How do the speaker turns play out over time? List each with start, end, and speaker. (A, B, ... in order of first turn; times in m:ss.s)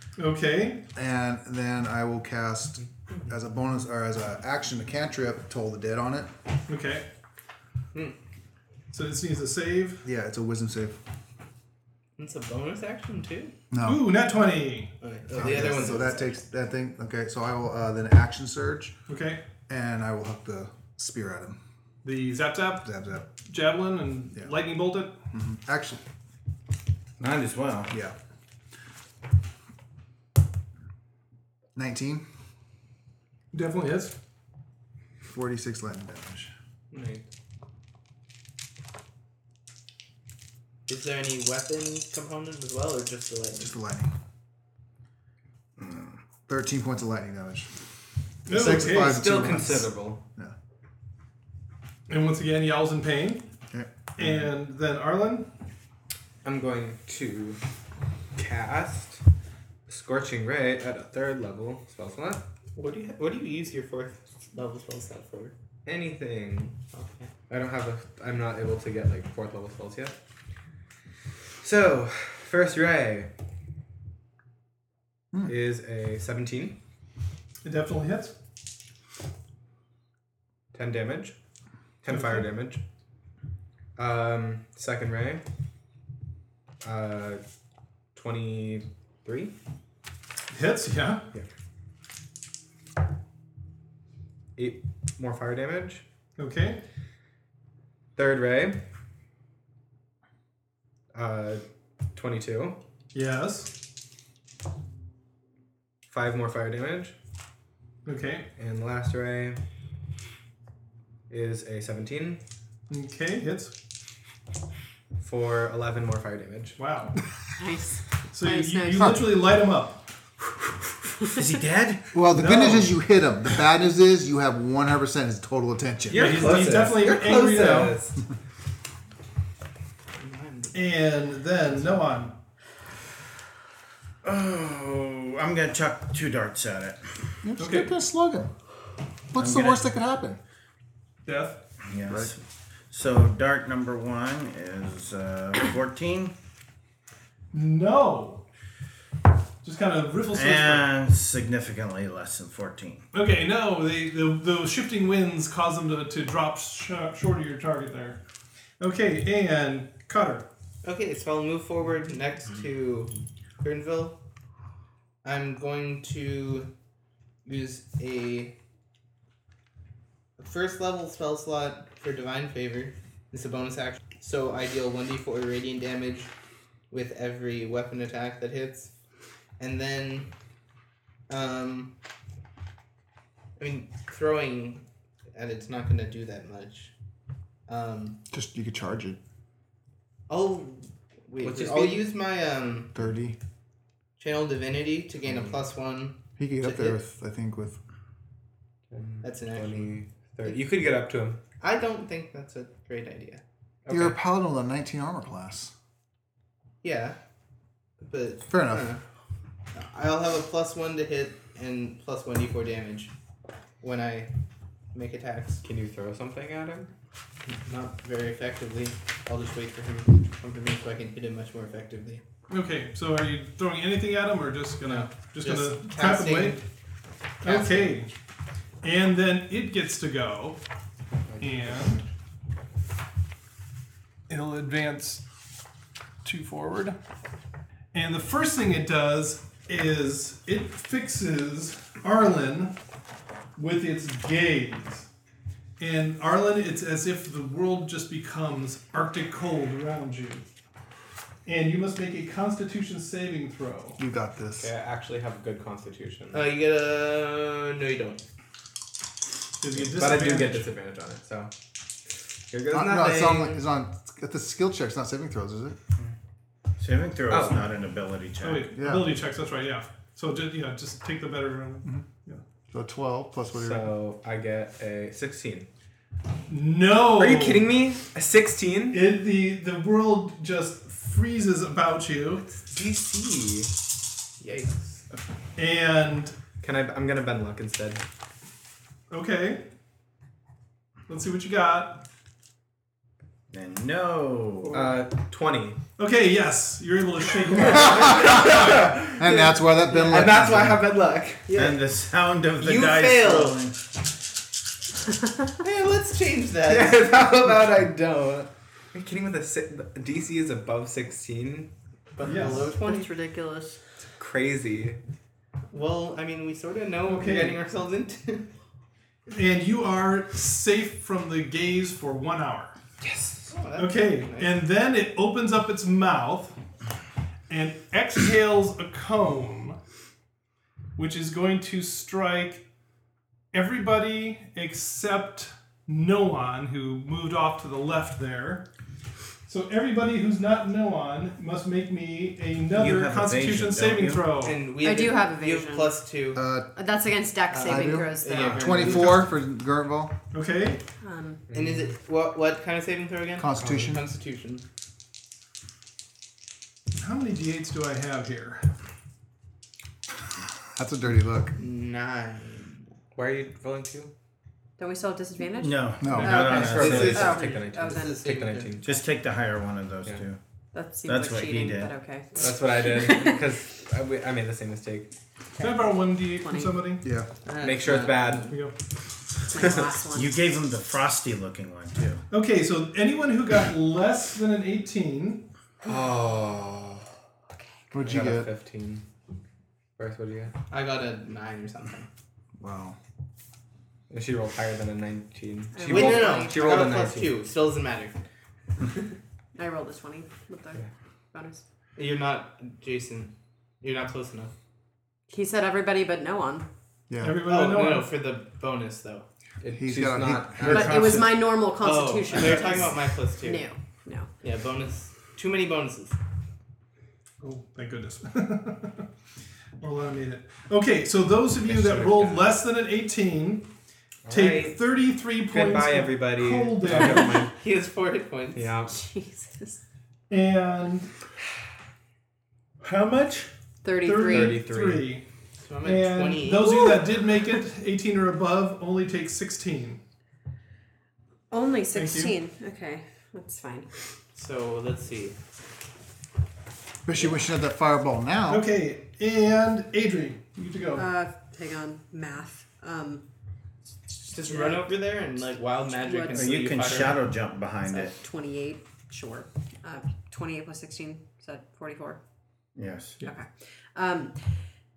0:00.2-0:00.8 A
0:00.9-0:06.3 B
0:06.7-0:07.1 A
0:08.9-0:10.0 A
0:10.0-0:11.0 B
0:12.2-0:13.5 C
0:13.7-0:14.2 B
0:13.8-0:14.9 A
0:15.0-0:16.4 C
0:15.3-0:19.0 B
0:19.1-0:19.4 A
0:19.7-0:21.6 B
0:22.0-0:25.2 A
0:22.8-0:23.3 B
0:25.3-0:26.0 B
0:27.2-0:27.9 D
0:27.9-0:28.1 B
0:31.8-0:32.2 B
0:33.5-0:34.2 A
0:35.2-0:36.5 B
0:36.9-0:37.2 C
0:40.9-0:43.7 C
0:43.6-0:44.1 B
0:45.8-0:46.1 D
0:46.5-0:47.7 B
0:48.4-0:50.5 B
0:48.5-0:49.4 A
0:48.7-0:50.2 E
0:52.1-0:53.5 A
0:53.7-0:54.5 B
0:54.2-0:55.5 A
0:56.4-0:57.6 E
0:58.4-0:59.2 E
0:59.9-1:02.4 E
1:02.7-1:05.5 C
1:05.8-1:06.8 E
1:06.9-1:07.3 C
1:07.5-1:10.2 E
1:11.6-1:13.3 E
1:15.4-1:16.8 E
1:17.6-1:18.3 A
1:20.7-1:21.4 E
1:22.0-1:22.8 E
1:22.1-1:22.4 A
1:24.0-1:25.4 E
1:26.8-1:27.4 E
1:28.1-1:29.6 E
1:30.5-1:31.3 A
1:34.6-1:36.0 E
1:36.4-1:36.8 A
1:38.2-1:38.8 E
1:41.1-1:41.6 E
1:42.1-1:42.8 E
1:43.1-1:43.8 A
1:46.1-1:47.2 E
1:48.0-1:48.5 A
1:48.6-1:49.6 E
1:51.3-1:52.4 E
1:52.9-1:53.7 A
1:55.2-1:56.8 E
1:56.8-1:57.2 A
1:57.6-1:59.2 F
1:58.3-2:00.0 A
2:01.3-2:02.2 D
2:02.1-2:06.5 B
2:02.3-2:02.9 A
2:06.1-2:08.2 E
2:06.1-2:08.0 A
2:10.2-2:11.2 C
2:10.7-2:12.4 A
2:14.2-2:17.1 D
2:17.4-2:18.5 B
2:17.6-2:17.9 A
2:19.3-2:20.4 B
2:19.4-2:19.9 D
2:21.2-2:21.6 A
2:21.8-2:22.4 D
2:22.9-2:26.3 D
2:27.5-2:28.4 A
2:29.6-2:30.9 A
2:30.3-2:33.0 D
2:33.1-2:38.2 A
2:38.8-2:40.5 A
2:40.8-2:44.2 C
2:45.2-2:46.7 C
2:47.4-2:48.5 C
2:50.4-2:56.3 C
2:56.9-2:58.9 C
2:59.6-3:00.3 C
3:01.3-3:01.9 C
3:03.6-3:06.9 C
3:07.7-3:08.2 C
3:08.3-3:09.2 B
3:10.3-3:13.0 C
3:11.4-3:12.1 E
3:12.9-3:13.4 B
3:14.2-3:17.0 C
3:16.4-3:17.8 B
3:18.9-3:21.4 E
3:19.2-3:20.6 C
3:21.6-3:23.4 C
3:23.8-3:24.2 E
3:23.9-3:25.7 B
3:26.8-3:27.2 C
3:28.0-3:29.0 C
3:28.5-3:28.9 B
3:29.7-3:33.1 C
3:33.8-3:34.3 C
3:34.9-3:35.6 C
3:35.6-3:36.9 E
3:37.5-3:42.2 C
3:42.5-3:46.6 A
3:44.8-3:46.6 C
3:47.4-3:48.1 A
3:47.4-3:47.9 C
3:48.8-3:50.6 A
3:51.3-3:52.1 E
3:51.4-3:52.0 A
3:54.3-3:55.2 A
3:56.2-3:57.0 A
3:57.9-4:02.8 A
4:03.6-4:05.1 A
4:05.8-4:10.4 A
4:11.4-4:14.0 A
4:14.0-4:14.7 B
4:14.6-4:16.5 E
4:16.3-4:18.2 C
4:19.6-4:20.7 A
4:19.8-4:21.5 E
4:22.5-4:23.6 E
4:22.7-4:25.8 B
4:26.8-4:28.7 D
4:27.3-4:27.7 E
4:28.4-4:32.4 A
4:28.8-4:29.2 B
4:32.7-4:33.9 B
4:33.5-4:35.7 E
4:36.5-4:37.7 A
4:37.1-4:39.0 E
4:38.9-4:42.5 A
4:42.6-4:43.7 E
4:44.4-4:45.0 C
4:45.6-4:46.4 A
4:46.6-4:48.0 E
4:49.1-4:49.7 A
4:51.1-4:52.0 A
4:53.5-4:54.8 D
4:54.7-4:55.8 E
4:56.0-4:58.9 A
4:57.7-4:59.2 E
4:57.7-5:01.9 C
4:59.1-5:00.9 B
5:00.0-5:01.0 E
5:01.5-5:03.8 D
5:02.6-5:03.6 C
5:05.6-5:07.2 C
5:06.6-5:11.7 E
5:12.2-5:13.1 C
5:12.2-5:12.6 A
5:12.5-5:13.8 F
5:14.2-5:15.0 E
5:15.7-5:18.5 C
5:17.0-5:17.6 A
5:19.3-5:22.8 A
5:23.0-5:23.5 E
5:23.4-5:24.6 C
5:23.8-5:26.6 A
5:27.5-5:29.8 A
5:31.0-5:32.6 A
5:33.5-5:38.7 A
5:39.5-5:44.6 A
5:42.7-5:44.4 D
5:44.4-5:46.4 C
5:44.8-5:46.0 F
5:46.3-5:46.7 B
5:46.7-5:48.8 F
5:47.5-5:49.3 C
5:47.6-5:50.2 B
5:48.3-5:49.1 E
5:50.3-5:50.8 A
5:51.0-5:51.4 F
5:51.5-5:52.0 E
5:51.5-5:54.6 C
5:53.4-5:54.0 B
5:53.6-5:53.9 E
5:57.0-5:58.7 A
6:00.7-6:01.6 B
6:01.6-6:02.9 C
6:03.1-6:04.1 E
6:04.8-6:08.2 F
6:05.6-6:07.4 D
6:06.0-6:06.6 B
6:06.2-6:08.8 C
6:06.3-6:09.0 E
6:08.8-6:10.4 D
6:10.7-6:13.5 F
6:11.0-6:11.9 D
6:12.3-6:15.1 E
6:15.6-6:17.1 A
6:15.6-6:16.8 F
6:17.0-6:17.3 B
6:17.4-6:18.6 C
6:17.6-6:18.5 E
6:18.5-6:18.7 A
6:19.5-6:20.4 F
6:20.1-6:22.2 D
6:22.3-6:25.5 A
6:25.8-6:27.0 E
6:27.9-6:28.5 B
6:28.0-6:29.0 E
6:30.0-6:30.5 E
6:30.7-6:32.1 C
6:32.6-6:33.0 B
6:34.1-6:37.4 E
6:35.7-6:36.9 F
6:35.8-6:38.2 C
6:39.6-6:41.6 F
6:42.0-6:44.5 C
6:45.3-6:46.7 F
6:47.1-6:47.4 B
6:47.2-6:48.2 A
6:47.4-6:49.2 C
6:49.6-6:51.3 E
6:49.7-6:51.3 B
6:50.6-6:54.3 F
6:51.6-6:53.6 C
6:54.4-6:56.2 C
6:57.4-6:59.1 A
6:59.8-7:03.7 A
7:01.6-7:02.6 E
7:04.2-7:04.8 E
7:04.3-7:07.4 A
7:05.4-7:07.6 E
7:07.4-7:08.7 C
7:08.5-7:08.9 E
7:08.9-7:09.8 F
7:10.3-7:11.1 A
7:12.8-7:13.5 A
7:13.8-7:14.6 F
7:14.0-7:15.2 A
7:14.2-7:15.1 E
7:15.6-7:16.9 C
7:15.8-7:20.0 A
7:16.6-7:17.0 F
7:21.5-7:23.9 F
7:21.9-7:22.4 A
7:24.3-7:25.4 C
7:27.0-7:28.7 B
7:28.5-7:31.1 A
7:30.9-7:33.2 F
7:34.2-7:35.0 F
7:34.3-7:37.2 C
7:35.9-7:36.7 F
7:36.3-7:38.2 D
7:37.8-7:42.2 F
7:42.8-7:43.2 D
7:43.2-7:44.5 F